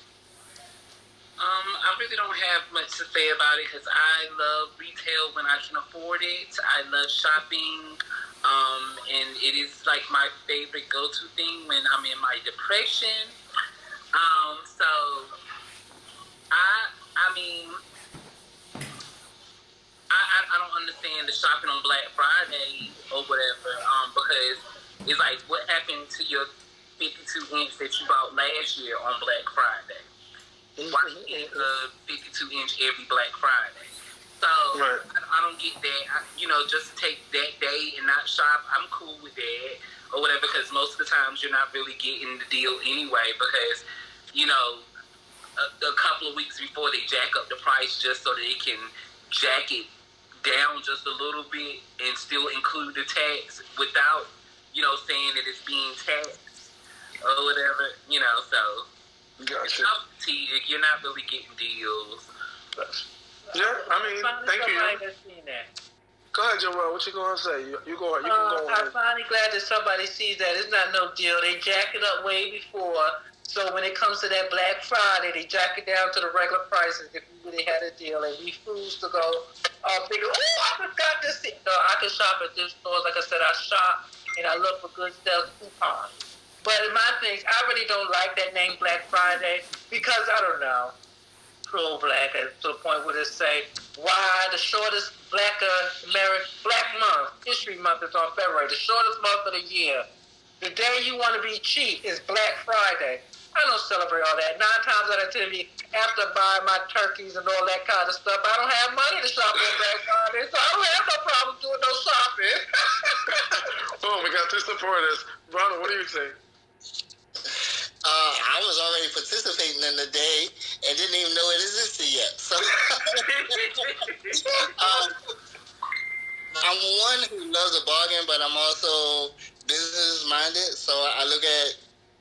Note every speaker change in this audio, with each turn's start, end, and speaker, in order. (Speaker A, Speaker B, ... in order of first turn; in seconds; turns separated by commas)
Speaker A: 1.4-13.3, Speaker A: 14.1-15.3, Speaker A: 16.5-17.8, Speaker A: 20.1-26.5, Speaker A: 27.0-30.1, Speaker B: 30.8-31.7, Speaker A: 30.9-44.9, Speaker B: 34.7-35.0, Speaker A: 45.6-49.9, Speaker A: 50.4-56.4, Speaker A: 57.2-58.9, Speaker B: 59.4-59.9, Speaker A: 59.6-62.2, Speaker C: 63.5-65.7, Speaker B: 63.5-65.0, Speaker B: 66.3-68.9, Speaker C: 68.2-91.0, Speaker C: 91.7-100.1, Speaker C: 100.6-113.5, Speaker B: 113.4-116.4, Speaker D: 118.0-123.2, Speaker A: 123.2-124.4, Speaker D: 124.7-125.1, Speaker D: 126.6-131.8